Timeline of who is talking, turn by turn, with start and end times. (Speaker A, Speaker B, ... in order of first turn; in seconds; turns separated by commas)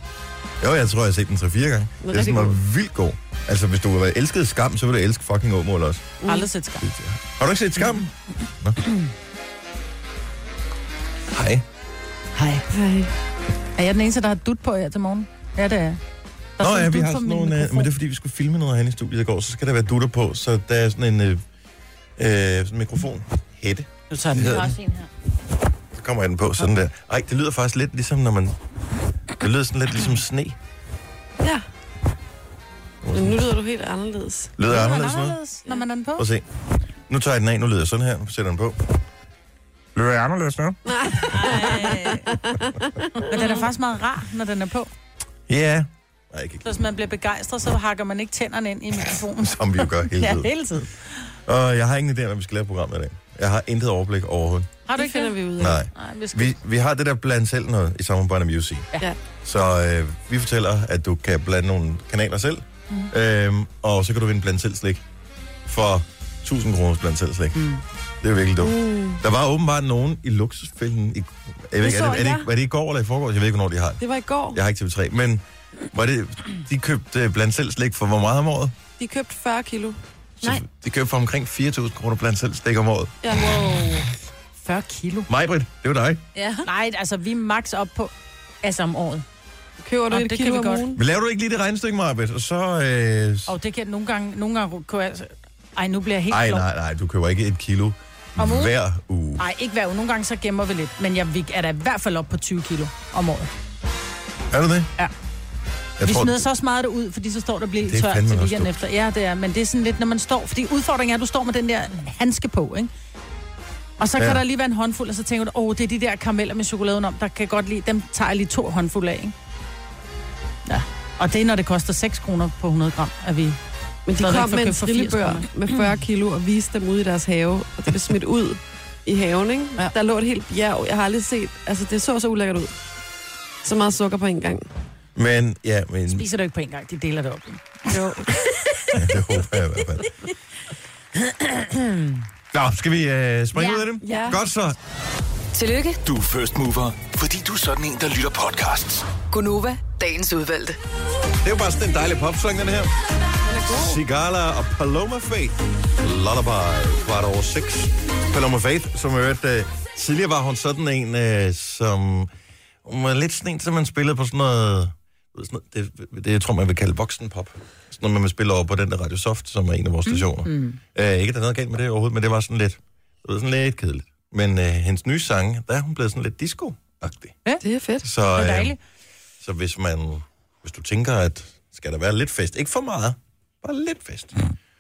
Speaker A: 0.6-6.1, Speaker B: 2.0-2.6, Speaker B: 6.2-6.5, Speaker C: 6.3-6.9, Speaker A: 6.8-8.1, Speaker A: 8.6-8.9, Speaker A: 11.3-11.7, Speaker C: 12.4-12.7, Speaker B: 12.7-13.1, Speaker C: 13.8-16.0, Speaker C: 16.6-17.9, Speaker A: 16.6-21.4, Speaker A: 22.2-24.7, Speaker C: 24.1-24.7, Speaker D: 24.4-25.1, Speaker A: 25.9-28.6, Speaker A: 29.4-30.6, Speaker A: 33.0-33.5, Speaker B: 33.1-34.5, Speaker A: 34.6-35.4, Speaker C: 34.7-36.2, Speaker A: 36.2-36.5, Speaker A: 37.1-39.0, Speaker A: 39.9-40.8, Speaker B: 40.9-43.4, Speaker D: 41.4-42.2, Speaker C: 41.8-42.1, Speaker C: 43.3-44.9, Speaker A: 45.5-46.7, Speaker C: 46.6-51.1, Speaker A: 49.4-50.5, Speaker A: 51.5-54.7, Speaker C: 54.9-55.4, Speaker B: 54.9-55.8, Speaker A: 55.6-58.9, Speaker C: 55.9-56.6, Speaker A: 59.4-65.0, Speaker A: 65.7-67.7, Speaker C: 67.5-67.8, Speaker A: 68.2-78.7, Speaker B: 68.6-69.2, Speaker B: 71.8-72.5, Speaker B: 74.0-74.6, Speaker B: 79.0-80.0, Speaker A: 80.4-83.2, Speaker B: 83.2-83.9, Speaker C: 83.4-84.1, Speaker C: 84.6-85.3, Speaker A: 85.3-86.2, Speaker D: 86.3-86.7, Speaker C: 86.7-88.1, Speaker D: 88.6-89.2, Speaker B: 89.8-91.0, Speaker C: 90.1-90.9, Speaker A: 90.9-93.5, Speaker C: 93.5-96.7, Speaker A: 96.3-99.5, Speaker C: 98.4-98.8, Speaker C: 99.4-103.5, Speaker A: 104.5-104.9, Speaker A: 106.0-106.4, Speaker C: 106.0-112.9, Speaker A: 107.8-108.8, Speaker C: 114.0-119.3, Speaker C: 120.7-123.6, Speaker B: 124.1-132.7, Speaker C: 124.1-125.5, Speaker B: 133.6-134.7, Speaker A: 135.2-136.3, Speaker C: 136.1-138.2, Speaker B: 137.9-138.2, Speaker A: 138.9-140.1, Speaker D: 141.4-142.2, Speaker A: 142.5-144.8, Speaker D: 143.6-143.9, Speaker B: 144.0-144.4, Speaker E: 145.5-146.0, Speaker F: 146.0-149.2, Speaker E: 149.3-150.8, Speaker A: 151.4-152.9, Speaker B: 153.5-154.0, Speaker A: 153.7-162.3, Speaker A: 162.8-177.4, Speaker C: 170.1-170.8, Speaker B: 177.6-178.1, Speaker A: 178.0-178.8, Speaker C: 178.3-178.8, Speaker A: 179.4-184.4